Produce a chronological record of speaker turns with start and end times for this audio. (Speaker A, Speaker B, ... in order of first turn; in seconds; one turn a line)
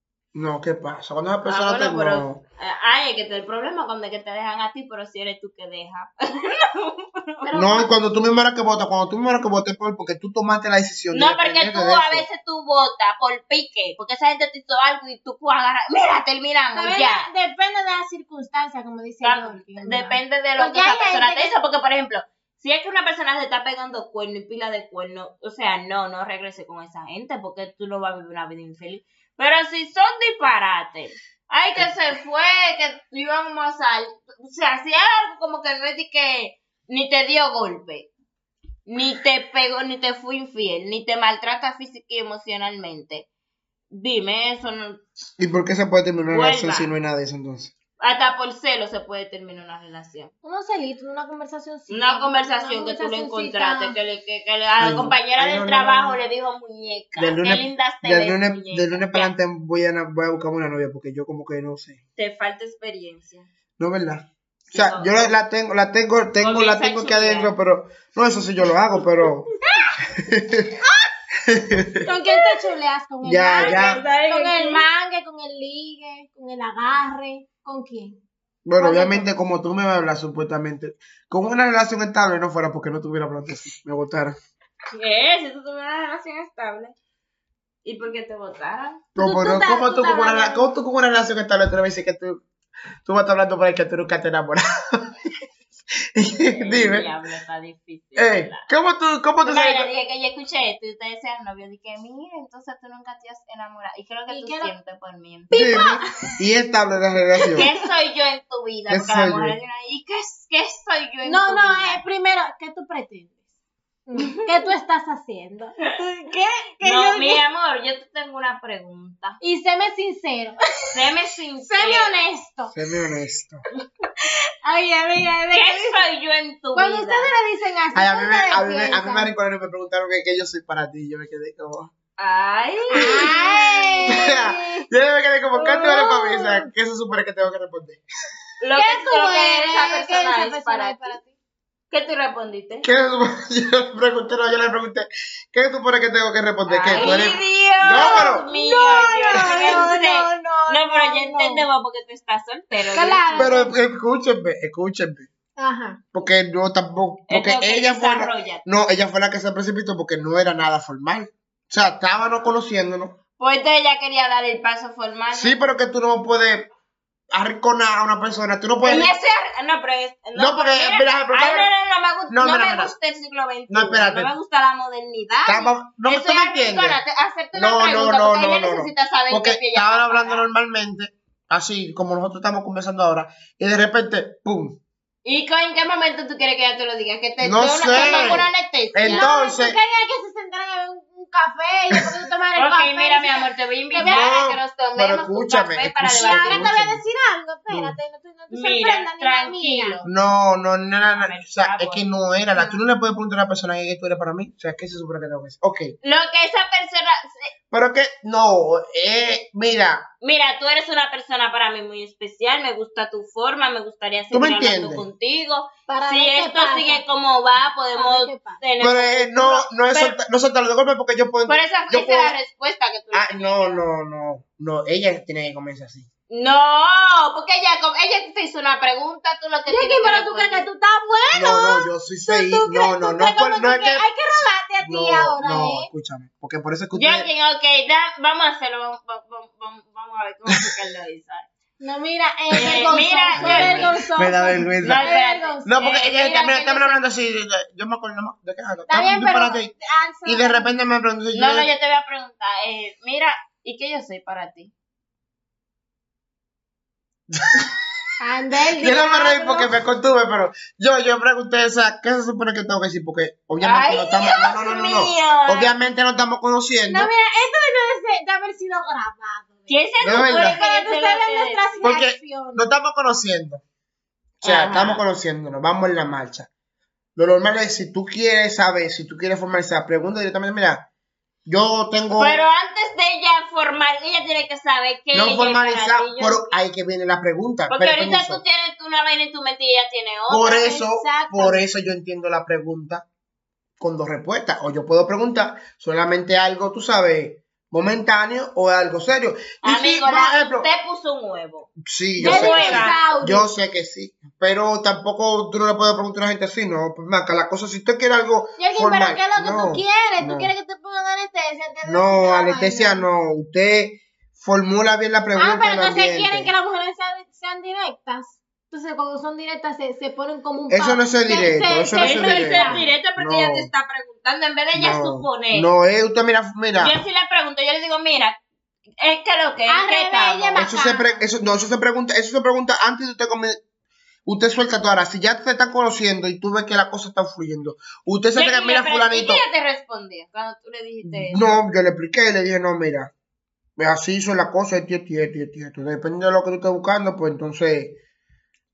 Speaker A: 0.3-2.4
Speaker B: 1.4-7.8
Speaker C: 7.5-7.9
Speaker A: 7.5-12.3
Speaker B: 11.1-17.3
Speaker C: 16.7-21.6
Speaker B: 19.2-38.1
Speaker B: 38.9-43.3
Speaker B: 43.9-45.0
Speaker A: 45.4-47.7
Speaker B: 46.3-46.9
Speaker B: 48.0-50.3
Speaker C: 50.4-54.0
Speaker B: 51.9-59.3
Speaker A: 54.8-56.2
Speaker A: 57.1-62.0
Speaker B: 62.1-63.5
Speaker A: 63.8-69.5
Speaker B: 64.7-65.3
Speaker B: 66.4-67.5
Speaker A: 70.1-70.8
Speaker A: 71.5-72.1
Speaker C: 72.0-78.2
Speaker A: 73.2-74.0
Speaker B: 73.5-74.9
Speaker A: 78.6-84.4
Speaker C: 78.8-79.3
Speaker B: 84.9-86.9
Speaker B: 87.8-89.0
Speaker C: 89.2-90.7
Speaker A: 89.2-92.4
Speaker A: 93.0-95.1
Speaker A: 96.1-97.1
Speaker B: 96.4-98.7
Speaker A: 98.2-99.9
Speaker B: 99.4-105.7
Speaker C: 104.3-104.7
Speaker C: 105.5-106.3
Speaker A: 105.5-107.7
Speaker B: 107.5-112.0
Speaker A: 108.9-109.6
Speaker C: 111.2-113.4
Speaker C: 114.1-117.4
Speaker B: 114.2-114.5
Speaker B: 116.8-119.4
Speaker C: 119.4-120.6
Speaker B: 120.9-122.1
Speaker C: 121.7-122.8
Speaker A: 122.7-123.6
Speaker C: 124.6-126.0
Speaker B: 125.5-127.3
Speaker C: 126.8-129.3
Speaker A: 127.9-131.9
Speaker B: 132.2-134.5
Speaker C: 132.9-134.6
Speaker A: 134.1-138.0
Speaker C: 135.6-136.7
Speaker B: 138.6-141.2
Speaker C: 138.7-141.3
Speaker B: 141.9-142.9
Speaker A: 142.8-148.5
Speaker B: 146.7-153.7
Speaker C: 146.9-147.3
Speaker C: 147.9-151.7
Speaker C: 152.8-153.7
Speaker A: 153.3-155.3
Speaker C: 155.6-156.0
Speaker A: 156.1-163.2
Speaker B: 157.3-158.6
Speaker B: 163.4-165.6
Speaker A: 165.3-166.7
Speaker A: 167.3-169.1
Speaker B: 168.8-180.5
Speaker A: 170.3-171.7
Speaker A: 172.3-172.9
Speaker A: 173.7-174.3
Speaker A: 175.5-177.0
Speaker A: 177.5-184.8
Speaker B: 185.2-189.3
Speaker A: 187.4-189.8
Speaker C: 187.9-188.4
Speaker C: 189.0-194.3
Speaker B: 192.5-196.7
Speaker A: 194.0-197.0
Speaker C: 196.2-200.0
Speaker A: 197.7-198.0
Speaker B: 198.5-200.1
Speaker A: 200.0-206.0
Speaker B: 201.1-202.1
Speaker B: 206.0-207.5
Speaker A: 207.7-210.1
Speaker B: 210.2-220.2
Speaker A: 214.3-215.1
Speaker C: 215.9-217.0
Speaker C: 217.6-218.6
Speaker A: 218.8-222.3
Speaker B: 221.5-223.8
Speaker A: 223.1-226.1
Speaker B: 226.3-230.7
Speaker C: 229.7-235.9
Speaker A: 231.3-237.3
Speaker B: 236.9-241.5
Speaker C: 241.8-245.9
Speaker A: 242.5-249.7
Speaker B: 242.5-244.0
Speaker B: 244.8-247.0
Speaker C: 248.9-250.7
Speaker A: 250.2-251.7
Speaker B: 251.3-254.7
Speaker A: 257.3-257.8
Speaker C: 258.2-259.7
Speaker A: 258.8-267.1
Speaker B: 263.6-265.7
Speaker C: 266.9-272.6
Speaker B: 269.7-271.8
Speaker A: 270.0-270.6
Speaker A: 271.8-273.6
Speaker A: 274.4-276.5
Speaker B: 274.4-275.0
Speaker A: 277.1-280.9
Speaker A: 281.5-282.4
Speaker B: 282.2-286.6
Speaker A: 285.1-288.4
Speaker B: 287.7-290.6
Speaker A: 290.3-293.1
Speaker C: 290.5-291.6
Speaker A: 293.8-300.7
Speaker B: 299.6-303.0
Speaker A: 301.8-310.5
Speaker C: 302.2-303.5
Speaker C: 308.6-313.1
Speaker A: 311.8-316.5
Speaker C: 315.4-322.9
Speaker A: 320.7-323.7
Speaker B: 321.9-325.7
Speaker A: 324.8-327.0
Speaker B: 326.8-328.4
Speaker B: 329.0-330.7
Speaker C: 329.7-331.2
Speaker A: 330.5-333.6
Speaker A: 334.2-339.4
Speaker B: 338.4-341.4
Speaker A: 341.0-343.1
Speaker A: 343.8-348.0